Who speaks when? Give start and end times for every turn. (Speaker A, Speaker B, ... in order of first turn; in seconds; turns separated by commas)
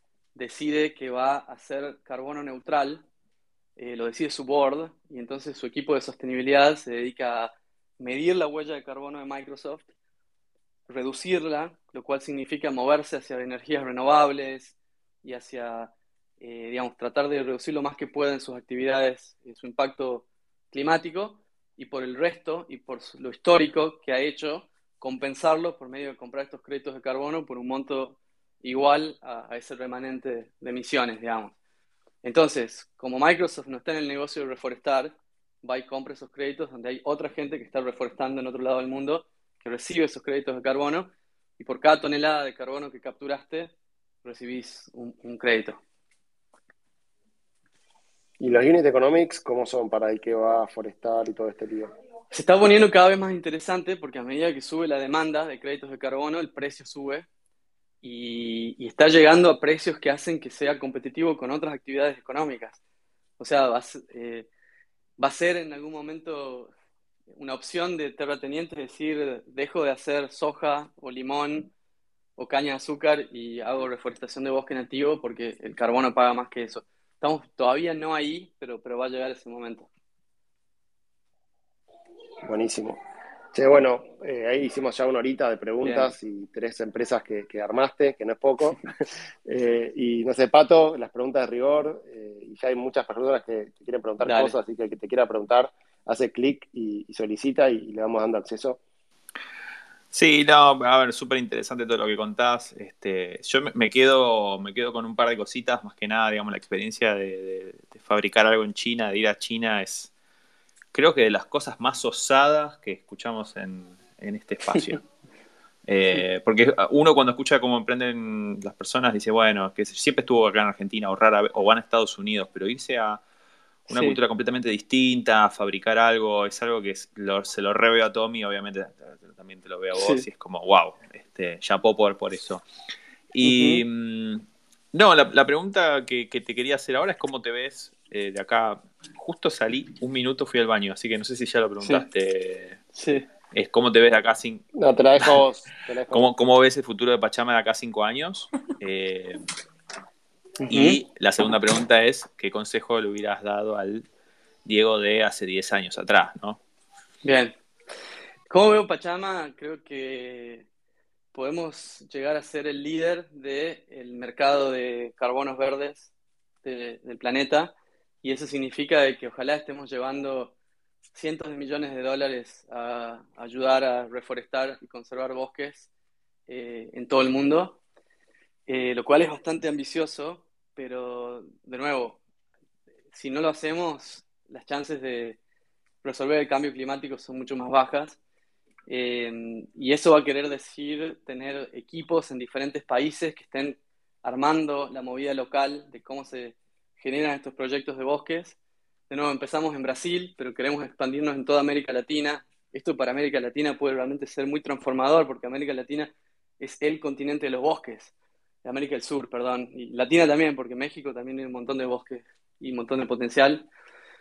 Speaker A: 0.3-3.0, Speaker A: 3.8-9.9, Speaker A: 10.9-31.6, Speaker A: 32.2-43.7, Speaker A: 44.2-45.8, Speaker B: 48.4-51.9, Speaker A: 52.3-57.3, Speaker A: 58.0-62.8, Speaker A: 63.4-64.5, Speaker A: 65.2-66.7, Speaker A: 67.4-71.7, Speaker A: 72.4-79.9, Speaker B: 82.4-83.0, Speaker B: 83.5-88.8, Speaker A: 85.8-86.1, Speaker B: 89.5-98.8, Speaker A: 94.2-94.5, Speaker C: 100.1-110.1, Speaker C: 110.9-115.1, Speaker A: 114.7-115.0, Speaker C: 115.9-123.2, Speaker A: 123.9-124.2, Speaker C: 123.9-132.6, Speaker A: 129.9-130.3, Speaker C: 133.3-142.8, Speaker A: 133.4-133.8, Speaker A: 141.8-142.1, Speaker A: 142.9-143.3, Speaker C: 143.5-144.6, Speaker B: 144.8-146.3, Speaker C: 146.1-149.4, Speaker A: 150.6-151.0, Speaker C: 150.7-154.1, Speaker C: 154.7-156.6, Speaker A: 157.2-157.6, Speaker A: 158.5-160.7, Speaker A: 161.3-166.1, Speaker A: 166.6-170.6, Speaker A: 171.1-175.9, Speaker A: 176.5-177.8, Speaker A: 178.7-182.2, Speaker A: 183.1-185.4, Speaker A: 186.0-188.2, Speaker A: 188.9-198.6, Speaker A: 199.1-208.1, Speaker A: 208.6-213.7